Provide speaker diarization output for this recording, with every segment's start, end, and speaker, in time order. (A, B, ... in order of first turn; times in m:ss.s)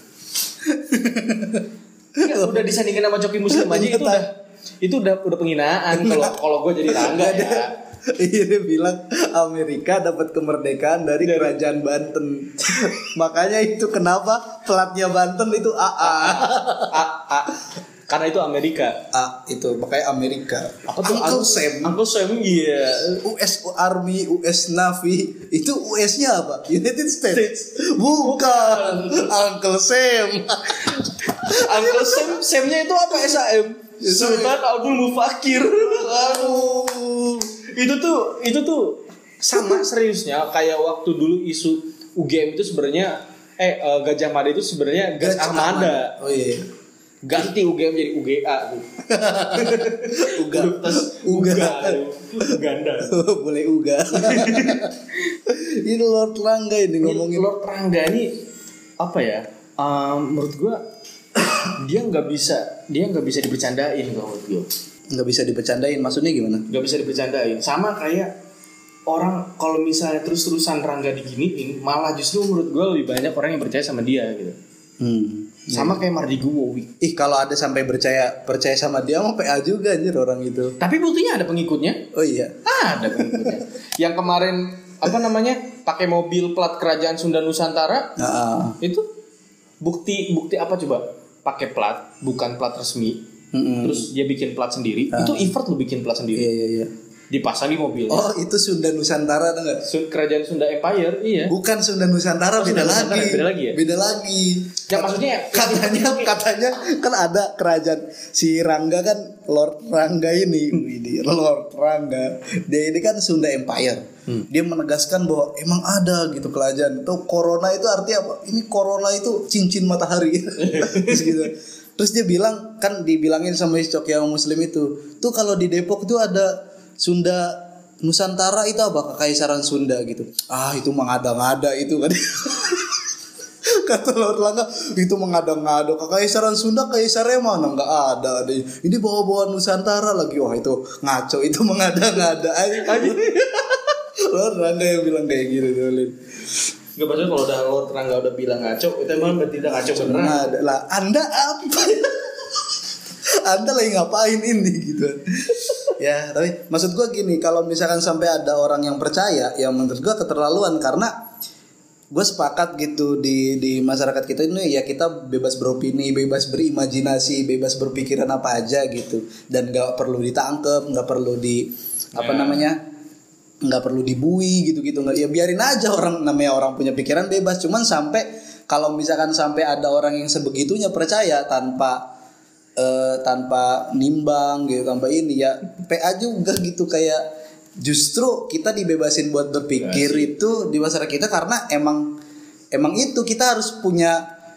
0:00.6-0:02.7 A
0:02.2-0:07.7 B
0:03.5-0:04.2 A
0:05.9-0:06.4 A
0:06.9-0:17.0 A
0:11.2-0:11.6 B
0:16.0-0:19.1 B
0:19.1-0:22.0 A
0:20.9-0:23.2 B
0:23.2-0:32.4 A
0:27.3-0:29.3 B
0:30.8-0:36.9 B
0:34.0-0:34.6 A
0:35.8-0:37.5 A
0:37.6-0:46.2 B
0:39.5-0:39.8 A
0:45.2-0:46.7 A
0:47.2-0:53.2 B
0:49.1-0:52.0 A
0:52.5-0:57.5 A
0:54.1-0:54.9 B
0:57.0-0:58.4 B
0:59.0-1:00.8 B
1:01.4-1:04.7 B
1:05.1-1:06.7 A
1:06.7-1:08.3 B
1:09.1-1:14.6 B
1:15.0-1:16.0 A
1:15.7-1:16.9 B
1:17.0-1:20.8 A
1:20.8-1:22.1 B
1:22.1-1:22.6 A
1:22.6-1:28.2 B
1:23.1-1:23.6 A
1:28.2-1:28.8 A
1:29.8-1:33.2 B
1:33.5-1:34.1 A
1:33.8-1:36.5 B
1:35.1-1:35.5 A
1:36.4-1:36.9 A
1:37.3-1:38.3 B
1:38.1-1:39.8 A
1:39.8-1:41.6 B
1:41.5-2:13.1 A
1:42.6-1:43.8 B
1:44.9-1:46.4 B
2:00.6-2:01.4 B
2:13.6-2:26.2 A
2:22.8-2:23.6 B
2:27.0-2:30.6 B
2:29.8-2:41.1 A
2:42.1-2:52.8 A
2:52.2-2:52.7 B
2:53.6-3:02.0 A
3:02.8-3:07.2 A
3:07.8-3:12.2 A
3:09.8-3:10.3 B
3:12.7-3:14.2 A